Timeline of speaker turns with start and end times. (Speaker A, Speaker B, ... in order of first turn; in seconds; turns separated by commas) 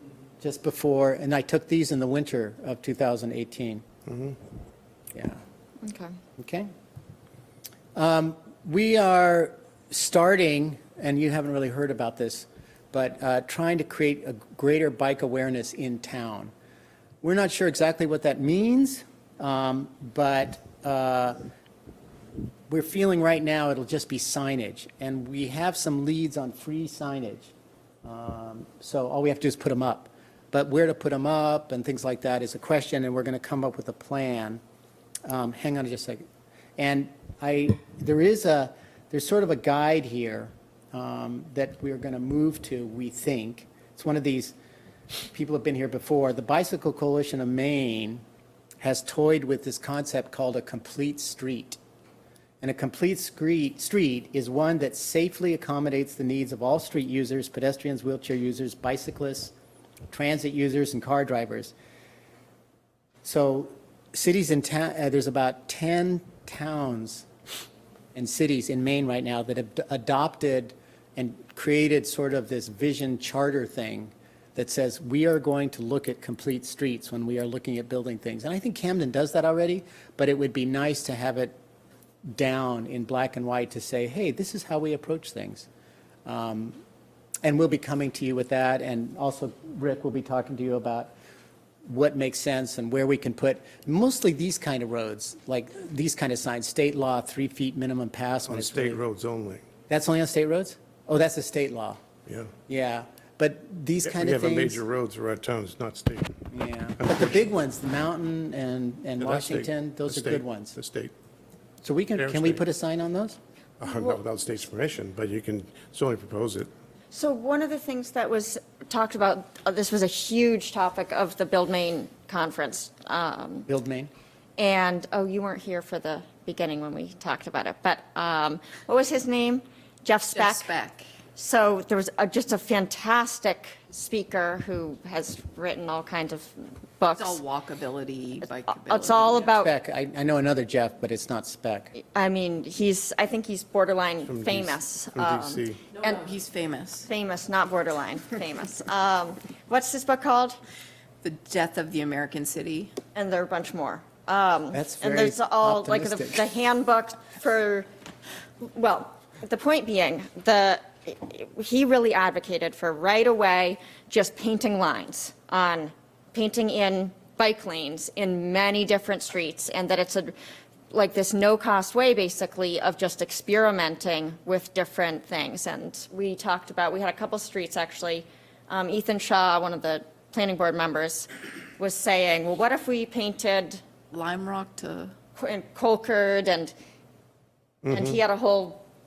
Speaker A: 0.4-3.9, Speaker B: 4.1-4.4, Speaker A: 5.1-5.4, Speaker C: 5.8-6.2, Speaker A: 6.4-6.7, Speaker A: 8.0-16.5, Speaker A: 17.2-21.4, Speaker A: 22.7-34.6, Speaker A: 35.2-36.3, Speaker A: 36.8-44.6, Speaker A: 45.3-48.2, Speaker A: 48.8-51.8, Speaker A: 52.6-59.5, Speaker A: 60.1-61.7, Speaker A: 63.2-67.3, Speaker A: 68.2-81.5, Speaker A: 82.3-85.7, Speaker A: 86.3-86.8, Speaker A: 87.4-91.1, Speaker A: 91.9-99.0, Speaker B: 98.5-99.6, Speaker A: 99.9-102.0, Speaker B: 102.3-102.5, Speaker A: 102.7-104.8, Speaker B: 104.0-107.4, Speaker A: 106.5-110.8, Speaker B: 109.2-111.1, Speaker A: 111.8-113.4, Speaker B: 112.2-112.6, Speaker B: 113.8-116.7, Speaker C: 117.1-123.7, Speaker A: 123.7-124.1, Speaker C: 124.6-130.7, Speaker D: 130.3-131.1, Speaker C: 131.4-137.4, Speaker D: 137.2-139.5, Speaker C: 138.9-139.7, Speaker A: 139.6-141.9, Speaker C: 142.0-146.3, Speaker B: 144.2-145.8, Speaker D: 145.9-147.1, Speaker C: 147.0-150.6, Speaker D: 151.2-153.0, Speaker C: 153.1-157.9, Speaker A: 154.7-156.4, Speaker C: 158.6-170.3, Speaker C: 170.9-183.8, Speaker D: 184.1-185.2, Speaker C: 185.4-186.7, Speaker B: 187.9-188.2, Speaker C: 187.9-188.8